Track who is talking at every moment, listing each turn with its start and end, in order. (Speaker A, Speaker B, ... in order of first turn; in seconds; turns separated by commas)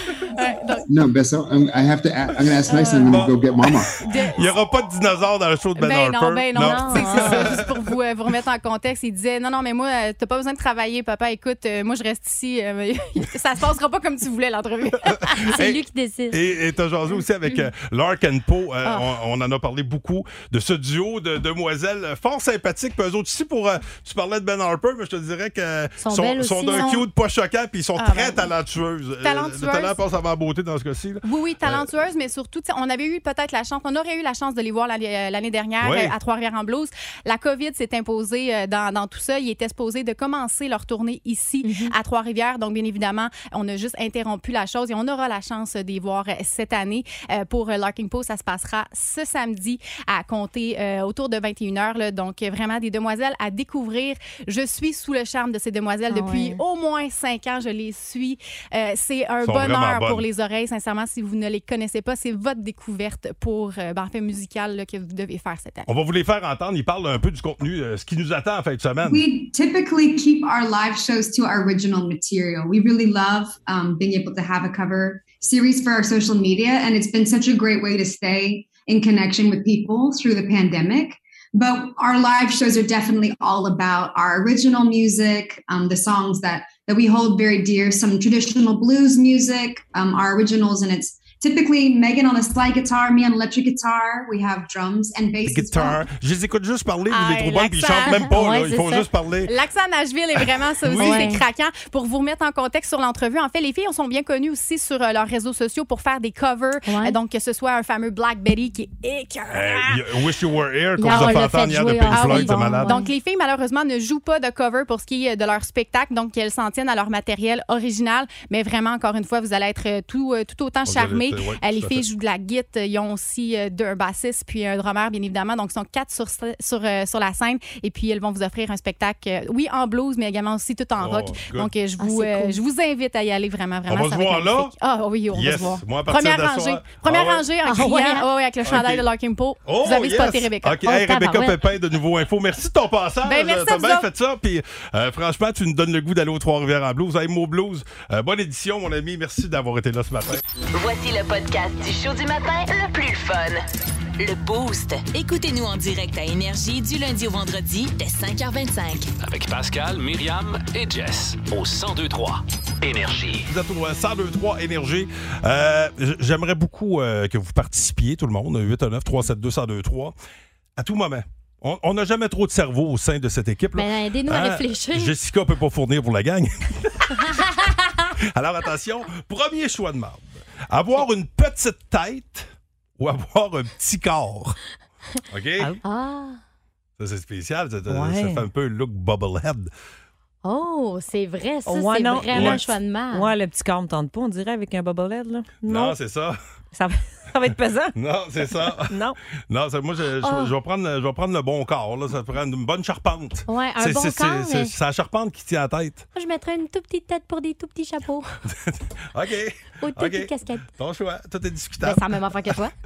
Speaker A: 0.3-0.8, Speaker B: 0.9-3.9, Speaker A: 2.7-3.1, Speaker C: 2.9-3.3, Speaker A: 4.0-4.4, Speaker C: 4.1-7.9, Speaker A: 5.8-15.5, Speaker D: 6.5-7.6, Speaker C: 15.0-15.8, Speaker D: 15.5-16.4, Speaker C: 16.3-31.9, Speaker D: 26.0-27.0, Speaker A: 28.0-28.5, Speaker A: 29.2-30.0, Speaker A: 31.2-65.9, Speaker C: 35.8-36.1, Speaker D: 41.6-41.9, Speaker D: 56.1-56.6, Speaker C: 59.4-60.2, Speaker C: 65.9-69.2, Speaker E: 69.0-96.0, Speaker C: 95.4-99.5, Speaker A: 97.1-98.2, Speaker D: 98.0-99.1, Speaker A: 99.5-110.0, Speaker C: 100.4-101.4, Speaker D: 101.0-101.4, Speaker D: 106.8-107.2, Speaker C: 109.5-113.0, Speaker D: 111.0-113.1, Speaker A: 111.0-111.4, Speaker A: 112.0-140.8, Speaker C: 120.8-122.0, Speaker C: 131.0-131.7, Speaker D: 132.0-132.6, Speaker C: 133.9-134.7, Speaker C: 135.3-137.5, Speaker D: 137.6-138.3, Speaker C: 138.6-139.0, Speaker C: 139.6-150.4, Speaker D: 140.8-141.6, Speaker A: 143.2-144.1, Speaker F: 150.7-153.6, Speaker F: 154.2-159.1, Speaker G: 159.2-163.5, Speaker C: 163.5-170.1, Speaker C: 170.8-177.3, Speaker D: 173.7-175.1, Speaker C: 178.2-184.6, Speaker C: 185.3-185.7, Speaker D: 185.8-186.4, Speaker C: 187.0-189.7, Speaker H: 187.9-188.5, Speaker D: 190.4-193.3, Speaker H: 191.7-196.0, Speaker C: 192.3-192.6, Speaker C: 195.6-196.4, Speaker H: 196.7-197.9, Speaker C: 197.9-206.0, Speaker H: 198.5-199.2, Speaker D: 200.2-200.5, Speaker D: 203.5-204.7, Speaker D: 206.1-208.3, Speaker C: 208.4-212.6, Speaker D: 209.8-210.7, Speaker D: 211.8-212.7